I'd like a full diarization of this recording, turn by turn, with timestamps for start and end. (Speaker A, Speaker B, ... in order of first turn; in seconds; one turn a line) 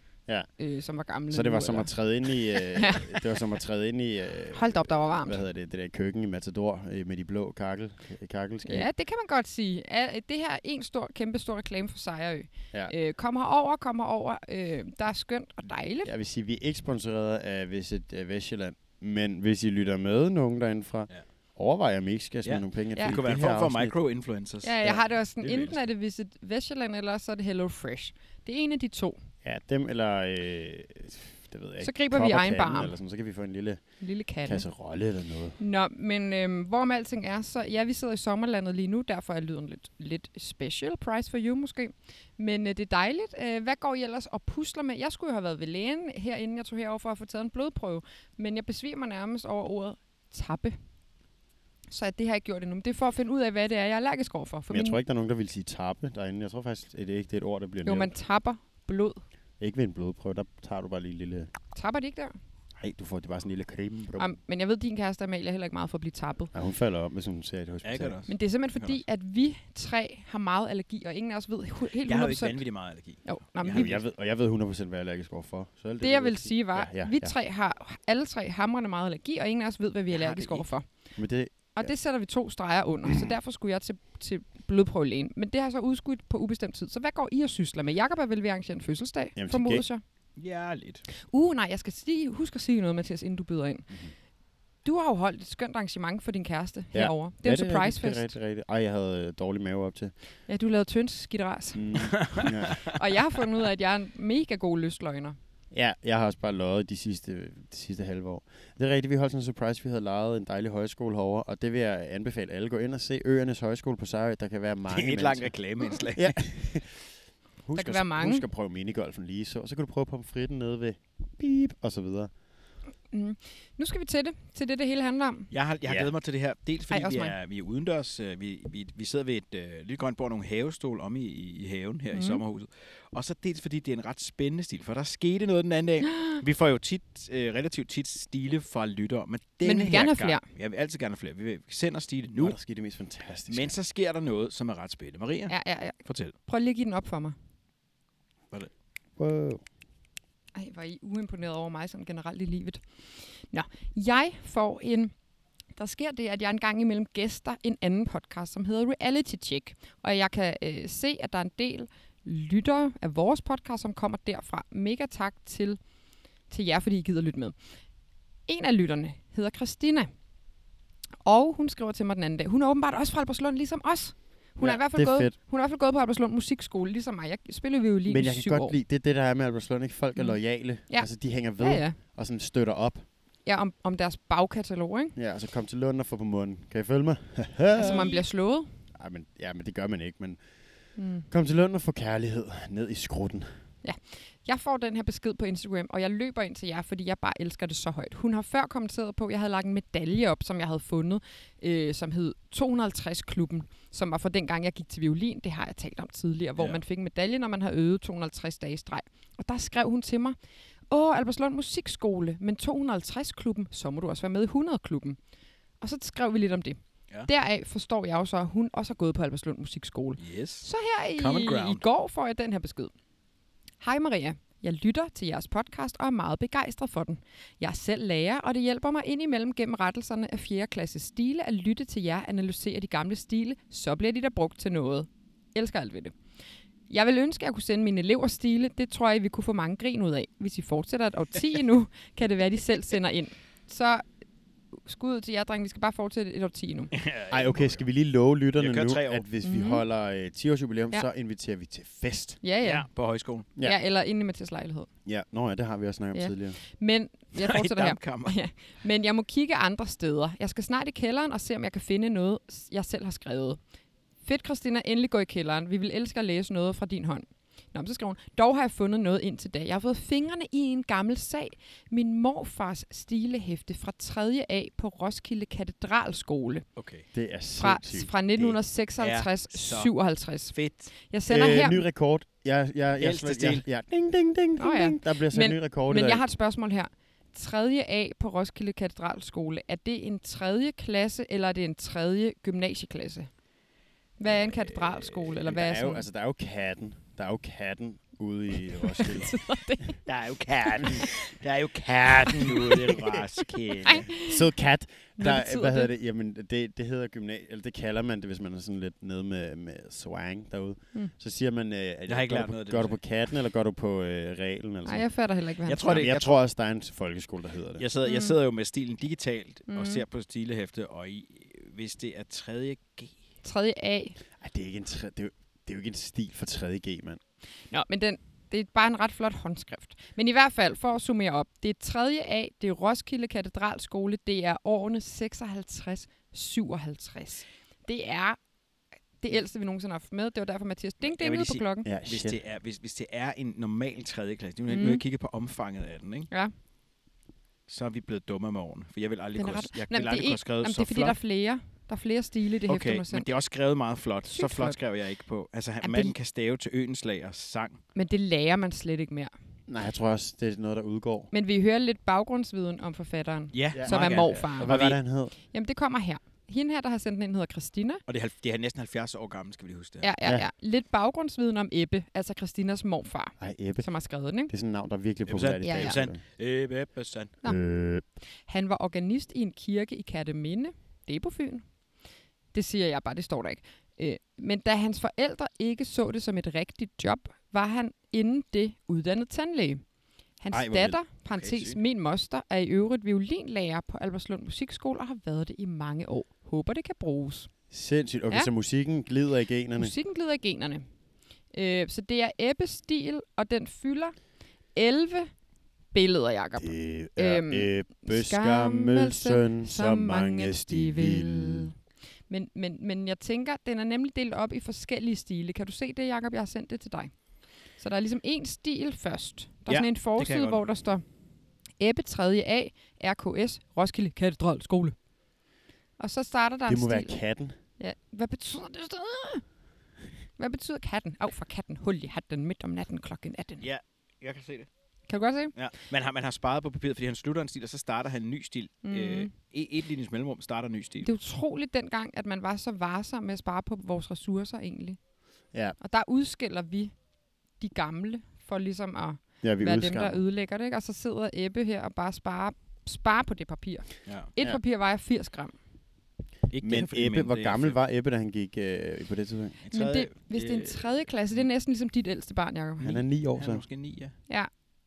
Speaker A: 0.6-1.9
Speaker B: 1.3-8.9
Speaker A: 2.5-3.2
Speaker A: 4.5-5.4
Speaker A: 8.7-16.1
Speaker B: 16.0-23.9
Speaker C: 22.4-25.8
Speaker A: 24.6-29.2
Speaker B: 29.4-33.9
Speaker A: 31.8-32.9
Speaker A: 34.0-34.6
Speaker B: 34.4-35.6
Speaker A: 35.6-50.8
Speaker A: 51.9-55.0
Speaker B: 54.7-58.1
Speaker A: 57.9-59.2
Speaker B: 59.6-61.5
Speaker A: 61.7-62.4
Speaker B: 62.8-64.3
Speaker A: 64.2-66.5
Speaker B: 66.5-68.2
Speaker C: 67.8-69.0
Speaker A: 68.3-72.6
Speaker C: 72.0-74.0
Speaker A: 73.2-73.9
Speaker B: 73.7-77.3
Speaker A: 76.0-80.9
Speaker C: 80.1-80.7
Speaker B: 81.2-81.9
Speaker A: 81.8-90.0
Speaker B: 83.1-83.3
Speaker B: 89.4-89.8
Speaker C: 90.4-91.0
Speaker A: 91.2-93.9
Speaker A: 94.8-98.3
Speaker B: 96.9-100.1
Speaker A: 100.5-105.4
Speaker B: 101.8-103.0
Speaker C: 102.2-102.8
Speaker B: 105.7-115.5
Speaker C: 114.9-116.4
Speaker B: 116.2-117.0
Speaker B: 117.7-122.3
Speaker A: 117.8-118.5
Speaker A: 123.1-125.5
Speaker C: 125.5-142.6
Speaker A: 126.9-127.3
Speaker A: 132.1-132.4
Speaker A: 136.0-136.4
Speaker A: 139.6-140.4
Speaker B: 142.4-143.8
Speaker C: 143.5-146.3
Speaker A: 145.5-147.4
Speaker B: 149.2-149.6
Speaker A: 150.6-155.1
Speaker A: 155.8-165.8
Speaker A: 166.5-167.6
Speaker A: 168.5-170.1
Speaker A: 171.2-178.8
Speaker B: 174.6-175.3
Speaker B: 178.1-183.1
Speaker A: 180.2-182.0
Speaker A: 183.4-185.2
Speaker B: 185.2-188.2
Speaker A: 187.8-188.7
Speaker B: 188.9-190.4
Speaker A: 191.0-191.3
Speaker B: 191.3-193.6
Speaker A: 193.8-210.4
Speaker C: 206.6-206.8
Speaker A: 210.9-215.2
Speaker A: 215.8-222.9
Speaker C: 220.2-221.8
Speaker A: 223.8-236.2
Speaker A: 236.9-244.1
Speaker A: 244.8-246.9
Speaker C: 246.9-247.8
Speaker B: 247.3-252.4
Speaker C: 248.6-249.2
Speaker A: 249.4-249.8
Speaker A: 252.4-252.9
Speaker C: 252.6-253.5
Speaker A: 253.6-254.9
Speaker B: 255.1-256.6
Speaker A: 256.1-263.6
Speaker C: 257.4-258.4
Speaker A: 264.2-276.6
Speaker C: 276.8-277.1
Speaker B: 277.1-278.6
Speaker A: 277.6-281.9
Speaker C: 279.0-280.9
Speaker B: 281.3-286.2
Speaker C: 283.0-283.6
Speaker A: 284.6-293.3
Speaker A: 294.2-296.1
Speaker C: 294.3-295.1
Speaker B: 295.5-299.4
Speaker A: 298.9-300.0
Speaker C: 300.1-304.1
Speaker A: 300.8-301.1
Speaker B: 303.8-315.1
Speaker A: 303.9-304.4
Speaker A: 305.2-305.9
Speaker C: 312.1-313.0
Speaker A: 314.9-316.0
Speaker C: 315.6-316.4
Speaker B: 315.9-317.9
Speaker C: 317.8-323.1
Speaker A: 318.0-318.4
Speaker A: 319.7-320.1
Speaker A: 323.4-324.2
Speaker B: 324.4-327.2
Speaker A: 327.7-338.4
Speaker A: 339.2-341.9
Speaker C: 341.1-346.3
Speaker B: 341.9-342.4
Speaker A: 344.7-345.0
Speaker C: 347.7-351.2
Speaker A: 349.4-353.3
Speaker C: 352.7-357.8
Speaker A: 354.2-354.8
Speaker A: 355.8-356.1
Speaker A: 357.9-359.3
Speaker B: 359.7-361.3
Speaker A: 361.3-364.8
Speaker C: 363.5-365.0
Speaker B: 363.7-365.3
Speaker A: 365.4-368.0
Speaker C: 368.1-370.1
Speaker A: 370.0-374.5
Speaker B: 373.4-373.9
Speaker B: 374.5-376.2
Speaker C: 375.3-377.4
Speaker A: 375.6-376.0
Speaker B: 377.4-378.0
Speaker A: 378.5-381.8
Speaker A: 382.5-389.8
Speaker A: 390.4-397.5
Speaker C: 390.5-391.8
Speaker B: 397.7-400.0
Speaker A: 399.8-400.9
Speaker A: 401.5-404.2
Speaker A: 404.7-405.4
Speaker A: 405.9-411.8
Speaker B: 406.6-411.7
Speaker A: 412.3-421.1
Speaker C: 419.7-420.6
Speaker A: 421.8-425.0
Speaker A: 426.0-427.2
Speaker B: 426.7-427.6
Speaker A: 427.8-429.5
Speaker A: 430.4-433.7
Speaker C: 433.6-434.7
Speaker A: 435.1-435.5
Speaker C: 435.5-441.1
Speaker A: 438.8-439.3
Speaker A: 441.0-445.0
Speaker A: 445.8-447.0
Speaker A: 447.6-455.6
Speaker B: 449.4-450.2
Speaker C: 454.1-454.3
Speaker C: 456.5-457.8
Speaker B: 456.6-459.6
Speaker C: 459.6-461.4
Speaker A: 459.7-463.0
Speaker B: 462.8-463.6
Speaker C: 463.4-464.1